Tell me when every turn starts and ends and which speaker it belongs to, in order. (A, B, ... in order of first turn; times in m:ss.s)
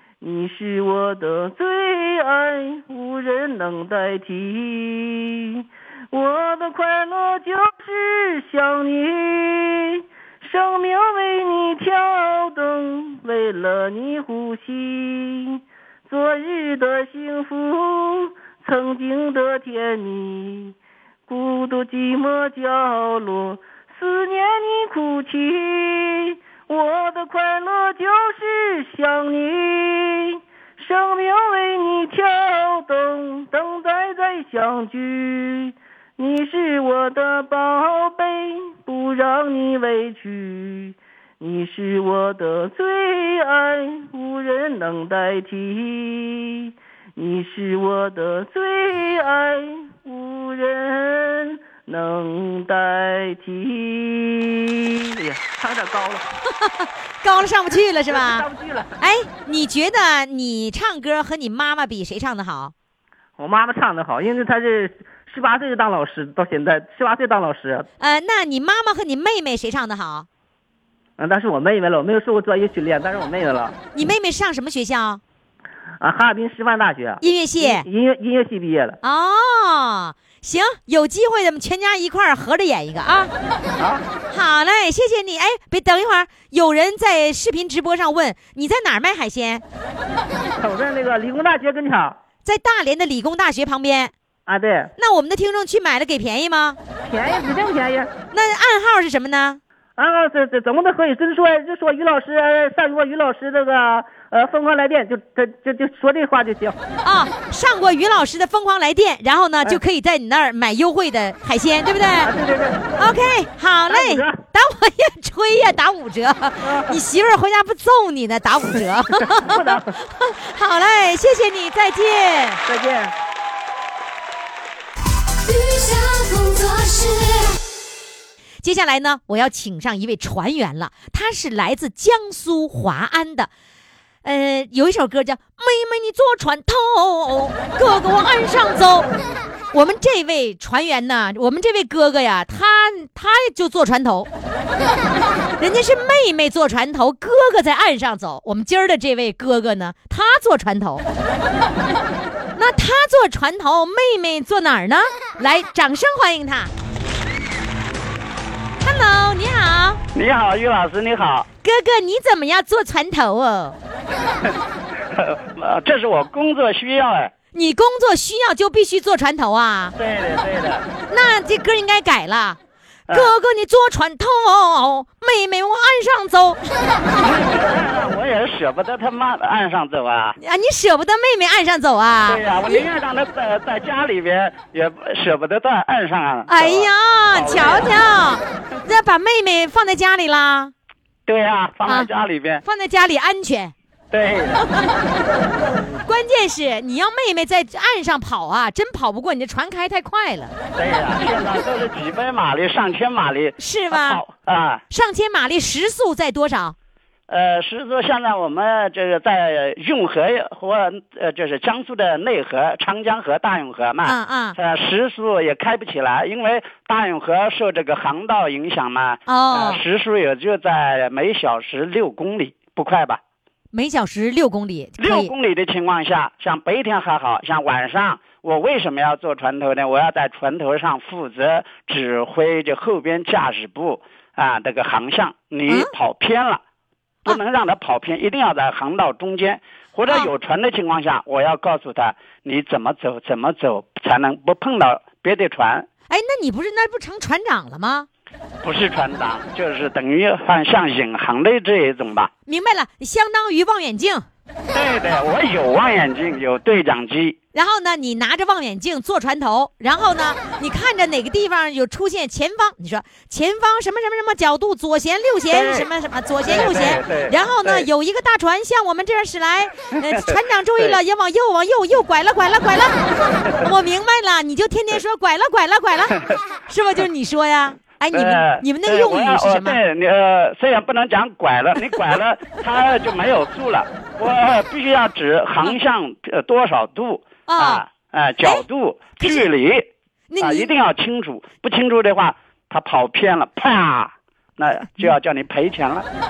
0:00.2-0:20.7 A
0:21.3-0:56.3 A
0:56.6-0:58.5 B
0:58.1-0:58.9 A
0:59.0-1:02.7 B
1:03.4-1:07.9 A
1:08.0-1:10.3 B
1:11.2-1:13.8 A
1:13.9-1:15.2 B
1:16.0-1:19.0 A
1:17.2-1:17.9 B
1:19.0-1:23.3 B
1:23.8-1:24.0 A
1:24.3-1:29.6 B
1:30.6-1:32.2 A
1:32.4-1:34.1 B
1:34.4-1:34.9 A
1:35.0-1:36.8 B
1:37.0-1:38.1 A
1:38.3-1:39.6 B
1:40.0-1:46.8 A
1:47.0-1:52.3 B
1:52.2-1:52.9 A
1:53.0-2:02.6 B
1:53.9-1:54.4 A
1:56.6-1:57.0 A
1:59.4-1:59.9 A
2:02.6-2:03.1 A
2:05.5-2:07.5 C
2:08.6-2:13.5 B
2:14.2-2:19.1 B
2:19.7-2:24.3 B
2:25.6-2:31.0 B
2:32.5-2:36.7 B
2:38.8-2:40.0 B
2:40.1-2:41.5 D
2:41.6-2:43.8 B
2:45.1-2:47.3 D
2:47.5-2:49.9 B
2:49.9-2:50.8 D
2:51.1-2:56.6 B
2:57.2-3:00.4 D
3:00.4-3:02.8 B
3:02.3-3:07.9 D
3:06.5-3:10.7 B
3:11.2-3:12.6 D
3:12.6-3:13.7 B
3:14.1-3:14.7 D
3:16.0-3:20.5 B
3:20.7-3:24.8 D
3:23.6-3:24.2 B
3:24.9-3:26.8 B
3:27.3-3:43.2 D
3:34.0-3:34.6 B
3:39.3-3:39.8 B
3:43.7-3:45.3 B
3:45.0-3:56.6 D
3:57.2-4:05.9 D
4:06.1-4:08.1 B
4:08.6-4:12.3 D
4:12.5-4:14.3 B
4:14.7-4:17.4 D
4:17.5-4:32.9 B
4:25.5-4:25.9 D
4:26.4-4:27.9 D
4:30.1-4:31.0 D
4:33.6-4:39.8 B
4:38.1-4:49.9 D
4:47.5-4:47.8 B
4:49.2-4:49.4 B
4:50.3-4:50.7 B
4:50.4-4:56.0 D